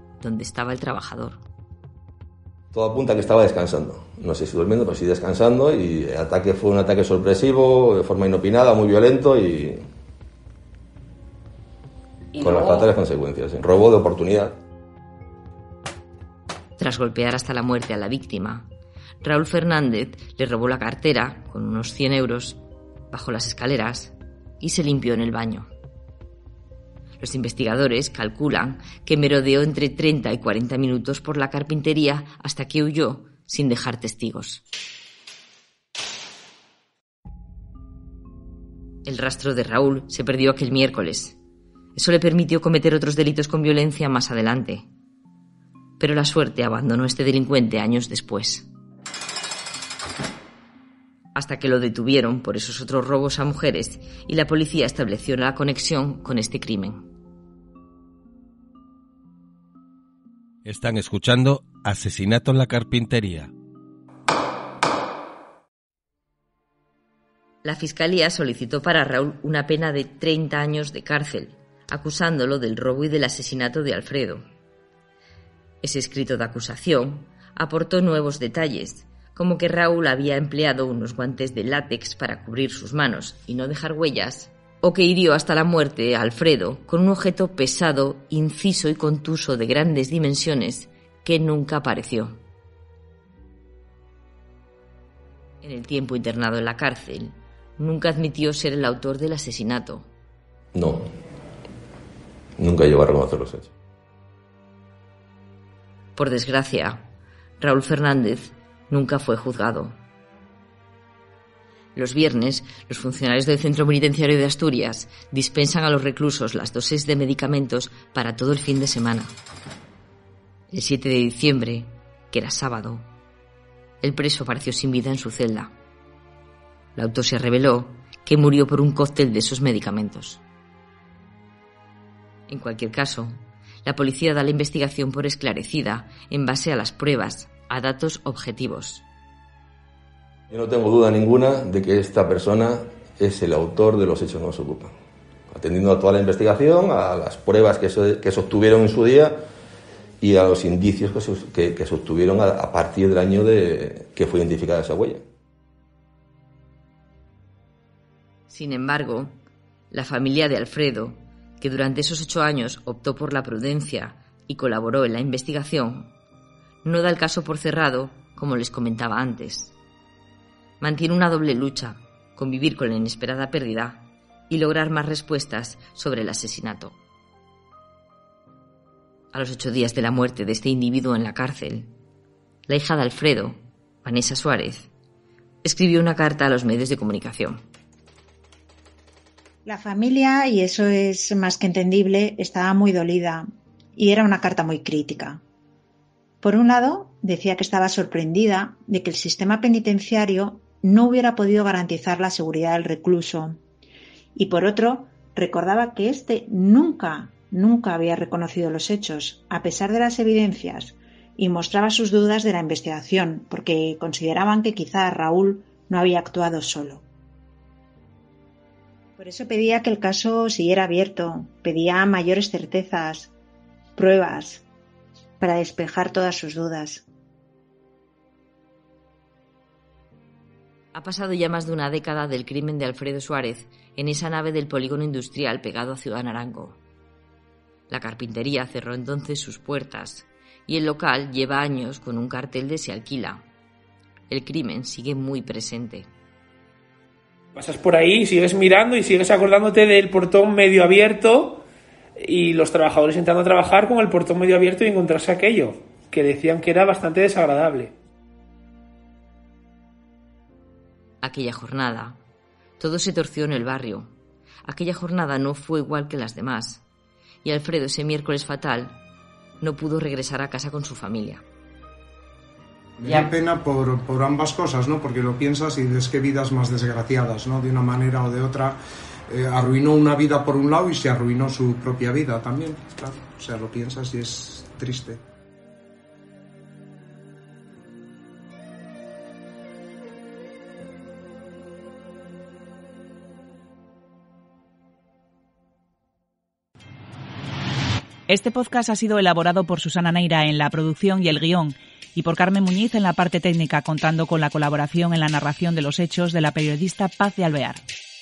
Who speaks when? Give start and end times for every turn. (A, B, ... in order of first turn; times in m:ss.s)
0:00.2-0:01.4 A
0:02.7-0:09.8 B
0:12.3-0:12.9 A
0:12.4-0:14.5 B
0:16.8-0:18.7 A
0:19.2-0:25.7 A
0:27.2-0:34.6 A
0:39.0-0:41.4 A
0:42.0-0:44.8 A
0:46.0-0:48.7 A
0:51.3-0:57.0 A
1:00.6-1:03.5 C
1:07.6-1:14.4 A
1:15.8-1:32.4 A
1:35.6-1:40.1 A
1:40.7-1:41.1 B
1:42.6-1:43.7 B
1:46.2-1:50.0 A
1:51.9-1:59.3 A
2:00.7-2:03.1 A
2:04.0-2:05.7 A
2:07.0-2:10.4 A
2:12.5-2:19.0 A
2:20.5-2:24.9 B
2:25.5-2:29.4 B
2:30.2-2:35.2 B
2:38.5-2:39.4 A
2:39.9-2:46.1 A
2:46.8-2:49.8 A
2:50.8-2:57.0 A
2:59.3-3:01.9 A
3:02.7-3:04.9 A
3:05.6-3:07.6 A
3:09.6-3:13.4 D
3:14.0-3:15.4 D
3:16.4-3:23.6 D
3:24.4-3:37.0 D
3:39.2-3:43.3 D
3:44.0-3:44.6 D
3:45.4-3:47.0 D
3:50.9-3:56.8 A
3:57.9-4:03.4 A
4:04.3-4:06.1 A
4:07.5-4:11.6 E
4:12.2-4:17.9 E
4:21.2-4:22.2 A
4:22.8-4:24.1 A
4:24.6-4:26.8 A
4:27.4-4:29.0 A
4:29.6-4:31.4 A
4:33.0-4:38.8 F
4:39.3-4:45.2 F
4:58.3-5:07.8 G